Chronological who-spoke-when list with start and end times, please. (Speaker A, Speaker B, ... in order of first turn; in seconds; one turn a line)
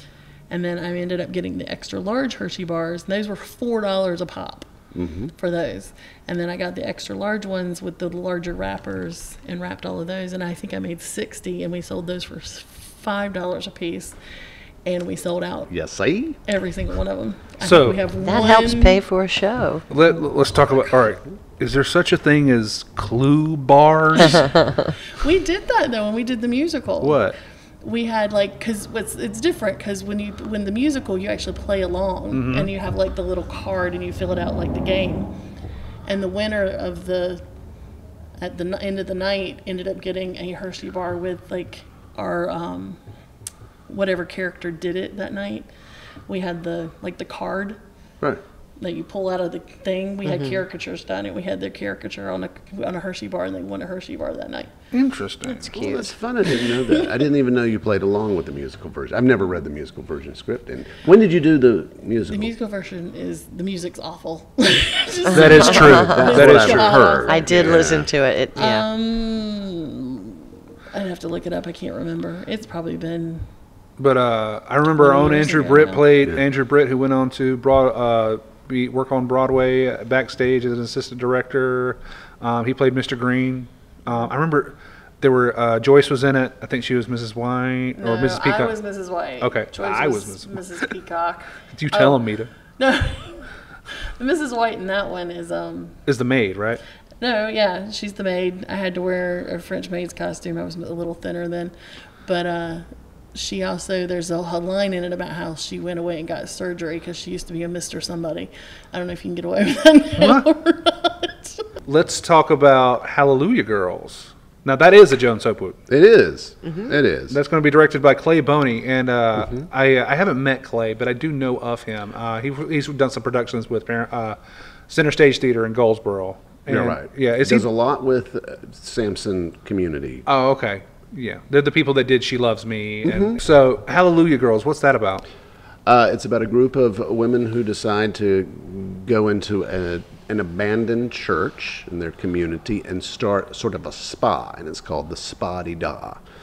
Speaker A: 0.5-4.7
Speaker B: 4.9-5.3
Speaker A: 5.4-14.2
Speaker A: 14.8-15.7
Speaker B: 15.7-16.4
Speaker A: 16.5-19.0
Speaker C: 17.6-18.0
Speaker D: 18.2-19.9
Speaker C: 19.9-24.5
Speaker A: 25.2-27.2
Speaker C: 27.0-27.4
Speaker A: 27.8-35.3
Speaker C: 32.3-32.7
Speaker A: 36.1-37.4
Speaker A: 38.4-43.0
Speaker A: 43.9-45.7
Speaker A: 46.3-47.8
Speaker A: 48.8-54.7
Speaker D: 50.3-50.5
Speaker C: 54.9-55.6
Speaker D: 55.5-56.1
Speaker B: 55.7-62.5
Speaker A: 56.5-57.1
Speaker A: 62.3-67.9
Speaker C: 65.3-67.1
Speaker D: 65.5-66.5
Speaker B: 65.7-68.1
Speaker D: 67.2-68.9
Speaker A: 68.6-73.5
Speaker C: 74.0-88.8
Speaker D: 75.0-76.0
Speaker A: 88.0-92.2
Speaker C: 89.4-90.6
Speaker C: 91.7-92.5
Speaker A: 92.8-96.0
Speaker C: 96.1-96.8
Speaker A: 97.2-101.7
Speaker A: 102.2-111.6
Speaker C: 110.2-110.5
Speaker C: 111.9-115.8
Speaker B: 115.9-117.4
Speaker C: 117.3-124.4
Speaker B: 119.4-119.6
Speaker C: 124.9-127.7
Speaker B: 126.7-130.2
Speaker C: 130.3-135.3
Speaker B: 133.1-133.4
Speaker B: 135.9-146.2